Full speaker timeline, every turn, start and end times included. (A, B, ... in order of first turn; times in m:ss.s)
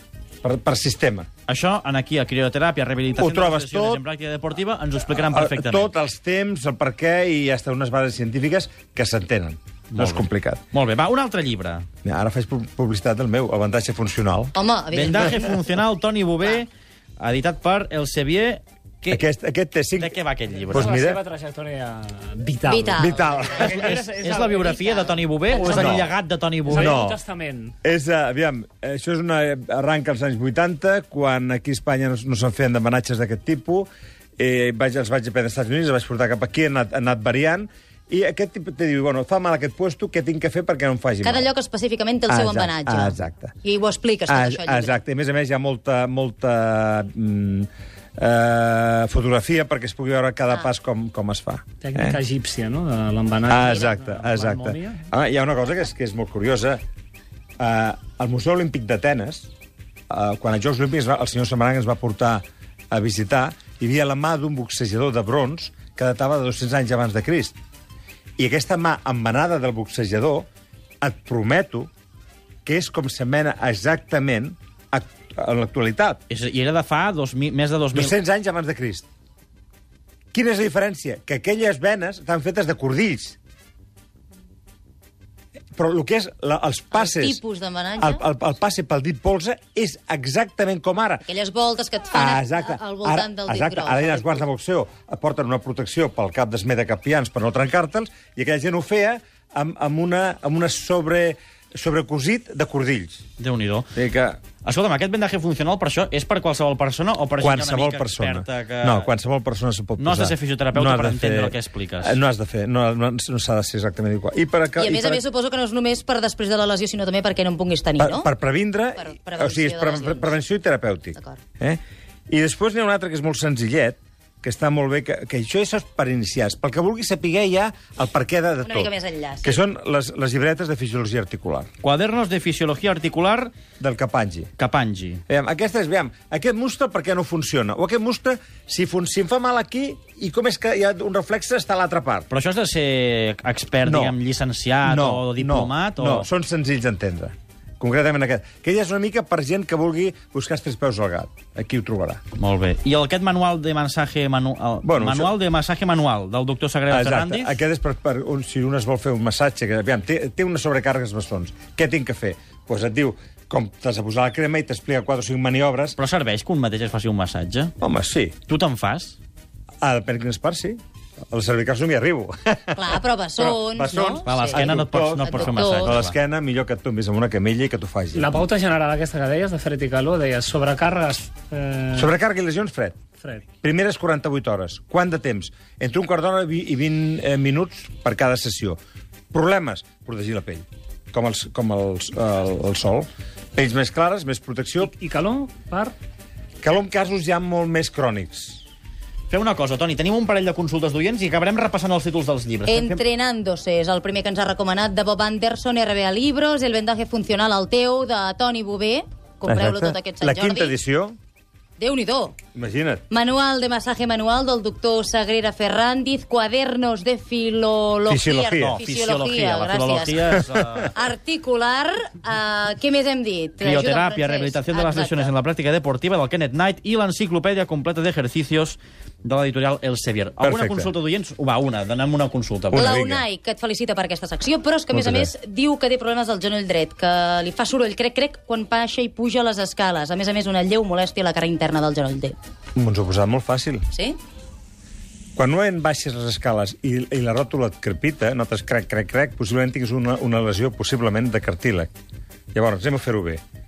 0:00.4-0:01.3 A
0:01.5-0:05.9 B
0:03.1-0:04.0 A
0:05.1-0:10.6 A
0:09.9-0:11.9 B
0:12.0-0:14.5 A
0:14.6-0:15.6 C
0:14.9-0:19.2 B
0:19.1-0:20.2 A
0:20.0-0:20.9 B
0:20.7-0:24.6 D
0:20.7-0:21.2 A
0:22.7-0:23.3 C
0:23.0-0:23.9 A
0:23.6-0:27.0 B
0:24.6-0:25.9 C
0:25.6-0:26.1 A
0:26.7-0:27.7 D
0:26.8-0:27.2 A
0:27.8-0:41.5 A
0:41.2-0:45.0 C
0:42.3-0:43.5 A
0:44.3-0:52.2 A
0:51.8-0:55.0 D
0:53.5-0:56.8 A
0:57.6-0:59.5 A
1:00.1-1:07.6 A
1:08.4-1:10.5 A
1:11.0-1:11.9 A
1:12.6-1:16.2 A
1:16.3-1:18.2 B
1:17.9-1:19.1 A
1:20.3-1:23.4 A
1:25.8-1:27.4 A
1:26.9-1:28.2 C
1:28.0-1:31.3 A
1:31.3-1:34.5 C
1:32.1-1:43.2 A
1:43.4-1:43.9 B
1:44.0-1:44.4 A
1:44.6-1:49.1 B
1:47.4-1:55.2 A
1:50.0-1:52.2 B
1:54.8-1:58.3 C
1:58.0-2:11.7 A
1:59.0-2:00.4 C
2:01.2-2:01.4 C
2:08.6-2:09.6 C
2:11.8-2:13.5 B
2:13.8-2:14.5 A
2:14.6-2:15.2 B
2:15.3-2:22.3 A
2:22.3-2:26.3 B
2:23.8-2:24.2 A
2:24.8-2:32.2 A
2:32.4-2:37.6 B
2:34.8-2:35.3 A
2:36.9-2:46.0 A
2:46.0-2:47.7 B
2:47.8-2:48.4 A
2:48.5-2:49.2 B
2:49.8-2:50.8 A
2:51.3-2:58.4 A
2:52.8-2:56.0 C
2:54.2-2:56.1 B
2:58.1-3:02.1 D
3:01.9-3:03.0 A
3:03.5-3:08.8 A
3:09.3-3:14.9 A
3:14.8-3:16.0 D
3:16.6-3:18.6 A
3:19.3-3:23.0 B
3:22.7-3:30.7 C
3:29.4-3:31.2 A
3:31.8-3:32.4 C
3:32.6-3:33.0 A
3:33.1-3:40.3 C
3:38.1-3:38.8 A
3:38.6-3:41.0 B
3:40.9-3:45.3 C
3:43.6-3:52.9 B
3:50.4-3:50.9 A
3:52.7-3:53.2 A
3:52.7-4:02.4 C
3:54.9-3:55.3 A
4:02.8-4:03.8 A
4:03.9-4:04.2 C
4:05.4-4:11.9 A
4:12.5-4:13.4 A